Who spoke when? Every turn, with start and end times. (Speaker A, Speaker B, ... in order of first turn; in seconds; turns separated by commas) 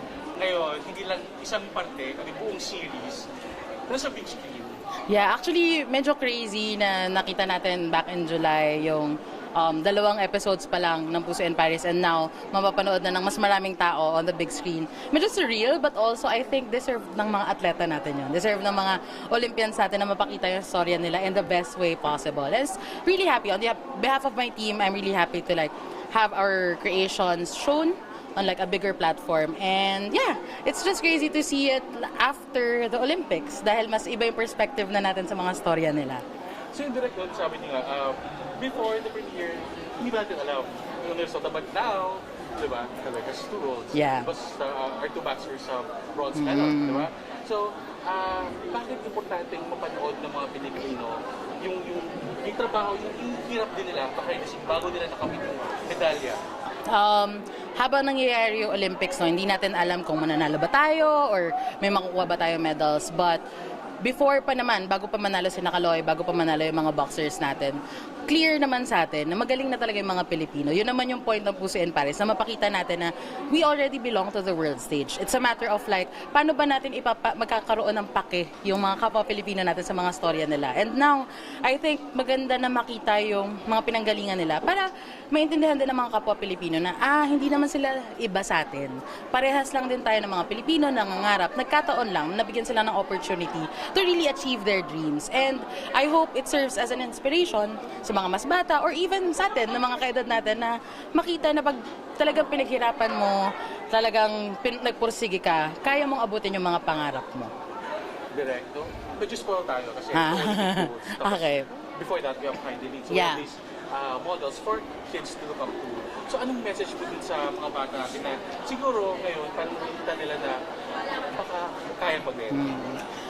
Speaker A: 0.4-3.3, Speaker A: 3.9-4.8, Speaker B: 5.1-36.2, Speaker A: 36.7-56.4, Speaker B: 43.9-44.3, Speaker B: 46.4-47.1, Speaker B: 56.9-63.4, Speaker B: 64.0-107.5, Speaker A: 108.3-120.6, Speaker B: 110.1-111.7, Speaker B: 113.1-113.4, Speaker A: 121.3-122.6, Speaker B: 122.5-123.0